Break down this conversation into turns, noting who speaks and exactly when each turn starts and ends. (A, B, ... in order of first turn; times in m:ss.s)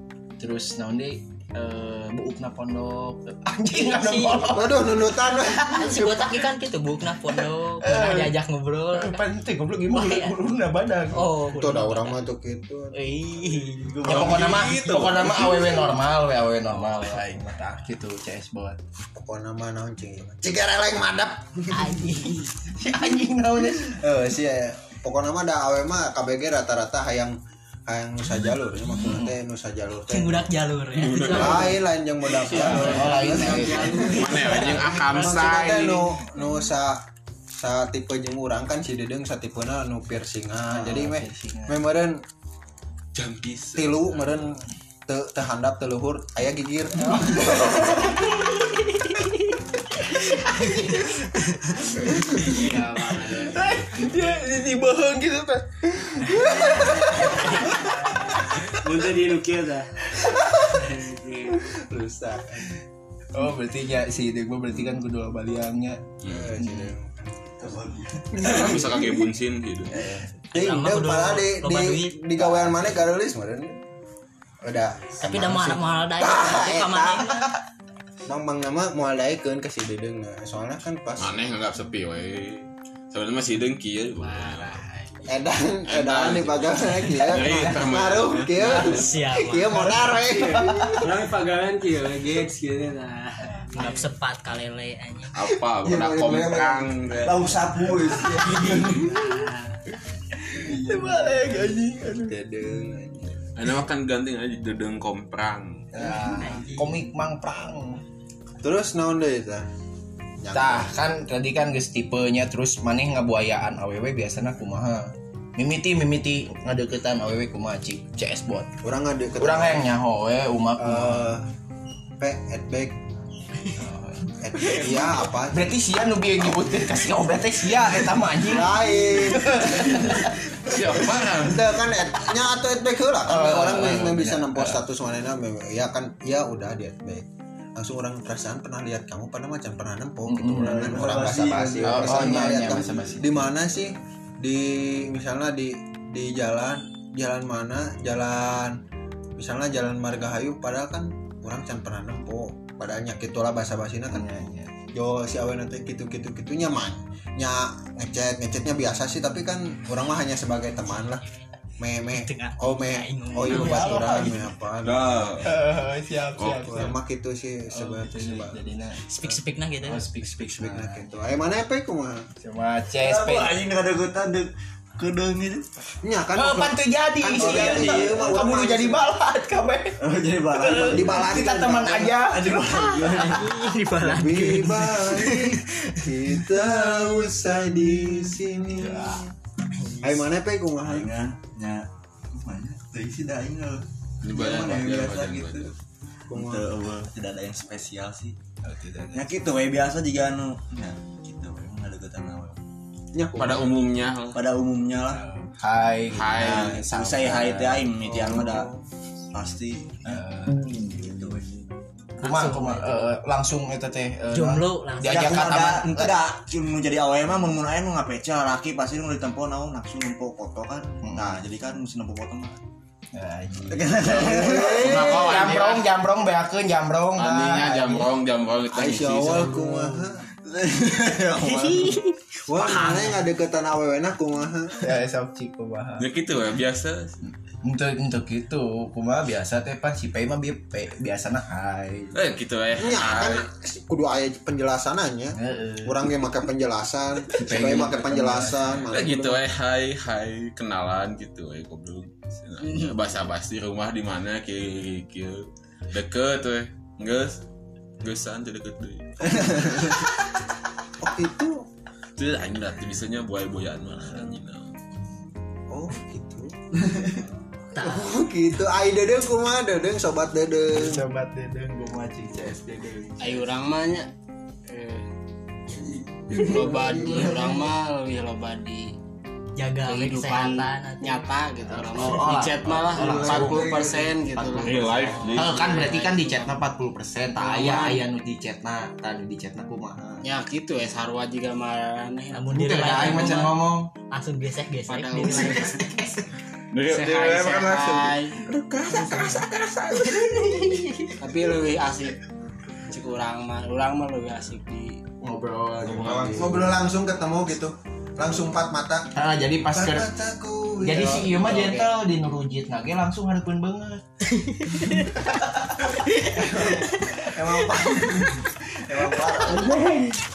0:00.4-0:04.8 A
0:03.7-0:04.6 B
0:04.5-0:06.4 C
0:05.6-0:09.2 B
0:07.8-0:08.3 A
0:08.9-0:11.3 A
0:09.9-0:10.4 B
0:11.1-0:12.2 B
0:11.4-0:12.9 C
0:12.9-0:14.2 B
0:14.0-0:14.8 D
0:14.0-0:18.8 A
0:14.1-0:15.5 E
0:19.1-0:21.9 C
0:21.7-0:22.5 B
0:22.8-0:23.9 A
0:23.9-0:27.4 C
0:27.9-0:30.5 C
0:30.1-0:31.8 B
0:31.0-0:31.7 E
0:31.3-0:37.0 C
0:32.3-0:34.6 F
0:32.4-0:34.7 B
0:32.6-0:34.1 A
0:34.1-0:36.2 E
0:37.6-0:42.2 C
0:40.7-0:41.8 A
0:43.2-0:44.3 E
0:43.8-0:48.0 C
0:47.3-0:48.1 A
0:48.1-0:49.5 B
0:50.2-0:51.6 B
0:50.5-0:50.8 A
0:52.4-0:53.7 F
0:53.5-0:57.5 A
0:56.4-0:57.8 B
0:56.8-0:57.9 F
0:58.6-0:59.9 F
1:00.6-1:01.6 F
1:01.8-1:02.7 C
1:03.3-1:06.0 A
1:06.2-1:06.5 E
1:06.2-1:07.6 C
1:06.6-1:06.9 A
1:07.6-1:08.5 D
1:08.3-1:09.2 C
1:08.4-1:10.0 E
1:09.9-1:10.3 A
1:10.5-1:12.9 B
1:10.5-1:13.8 C
1:14.6-1:17.4 C
1:15.2-1:17.5 B
1:18.3-1:21.3 C
1:21.2-1:24.8 E
1:24.2-1:25.1 F
1:25.3-1:31.2 C
1:25.9-1:28.8 E
1:28.6-1:30.2 B
1:30.4-1:34.0 F
1:33.7-1:35.4 B
1:35.3-1:37.6 E
1:35.9-1:36.9 C
1:37.2-1:39.1 D
1:38.3-1:39.5 B
1:38.5-1:39.6 F
1:40.5-1:42.3 A
1:40.7-1:41.1 C
1:42.2-1:43.3 C
1:43.6-1:45.9 E
1:45.9-1:48.0 A
1:46.2-1:47.0 B
1:48.6-1:49.7 C
1:50.4-1:50.9 C
1:50.5-1:58.7 A
1:58.8-1:59.9 C
1:59.4-2:01.4 A
2:00.8-2:01.5 C
2:02.2-2:03.0 C
2:03.8-2:04.3 A
2:04.4-2:05.8 C
2:05.5-2:10.3 A
2:08.4-2:10.2 C
2:10.6-2:11.7 E
2:10.9-2:28.8 C
2:13.3-2:14.8 A
2:20.3-2:21.1 A
2:20.6-2:22.4 D
2:21.8-2:23.5 A
2:29.4-2:34.3 C
2:34.1-2:34.7 A
2:34.9-2:41.2 C
2:41.8-2:45.4 C
2:42.0-2:44.5 B
2:43.5-2:44.3 A
2:44.8-2:45.5 E
2:45.4-2:47.0 A
2:46.4-2:46.9 E
2:46.7-2:48.6 C
2:47.7-2:49.0 A
2:49.1-2:50.1 B
2:49.8-2:51.1 A
2:50.2-2:52.3 C
2:52.4-2:53.7 A
2:53.0-2:55.7 D
2:56.0-2:59.0 C
2:56.4-3:03.0 A
2:57.4-2:58.4 D
3:00.0-3:01.4 D
3:00.8-3:02.2 C
3:02.2-3:03.7 D
3:02.7-3:06.5 B
3:04.0-3:09.2 C
3:08.8-3:09.2 A
3:10.0-3:11.1 C
3:10.8-3:15.7 D
3:14.2-3:15.8 E
3:16.3-3:16.7 C
3:16.3-3:18.4 D
3:18.6-3:19.2 A
3:19.1-3:22.6 D
3:23.1-3:23.7 C
3:23.4-3:24.4 E
3:24.3-3:25.2 D
3:25.1-3:27.9 A
3:26.1-3:26.8 E
3:26.4-3:28.7 D
3:28.0-3:28.8 C
3:29.3-3:31.5 D
3:30.0-3:30.7 A
3:32.2-3:33.2 B
3:32.2-3:36.2 A
3:34.3-3:35.6 B
3:35.0-3:42.6 D
3:41.0-3:41.4 A
3:43.1-3:48.1 A
3:43.7-3:45.0 D
3:44.2-3:45.3 C
3:44.7-3:45.9 E
3:47.2-3:49.6 E
3:48.7-3:50.2 C
3:50.4-3:52.0 D
3:51.4-3:53.2 B
3:52.5-3:54.9 C
3:54.8-3:56.1 A
3:56.0-3:57.2 E
3:57.6-4:02.2 A
4:02.1-4:03.5 E
4:02.8-4:09.4 C
4:05.4-4:06.0 A
4:07.3-4:08.9 A
4:08.9-4:17.4 E
4:12.7-4:12.9 B
4:18.0-4:20.0 E
4:21.0-4:21.6 C
4:22.2-4:24.7 E
4:25.7-4:27.2 C
4:27.7-4:28.2 B
4:27.8-4:31.0 C
4:30.7-4:33.5 A
4:33.2-4:34.1 F
4:34.7-4:35.0 F
4:36.3-4:37.7 C
4:36.3-4:38.9 F
4:39.6-4:41.3 B
4:39.8-4:46.5 F
4:41.7-4:43.7 A
4:42.9-4:44.4 C
4:44.4-4:44.9 D
4:44.5-4:45.8 E
4:45.4-4:50.0 A
4:47.4-4:48.0 F
4:50.2-4:53.4 F
4:52.3-4:56.2 B
4:52.5-4:53.9 A
4:54.9-4:55.7 F
4:56.7-4:58.1 E
4:56.8-4:58.4 F
4:58.9-4:59.4 A
4:58.9-4:59.3 B
4:59.1-4:59.6 E
5:00.1-5:01.1 B
5:01.2-5:02.2 F
5:02.9-5:05.0 F
5:05.2-5:06.8 A
5:06.3-5:09.1 C
5:09.2-5:10.1 A
5:09.7-5:11.9 C
5:10.8-5:14.0 A
5:14.4-5:15.1 B
5:16.1-5:17.0 B
5:16.4-5:16.8 C
5:17.4-5:18.3 C
5:17.6-5:18.1 B
5:18.9-5:19.7 C
5:19.0-5:19.2 D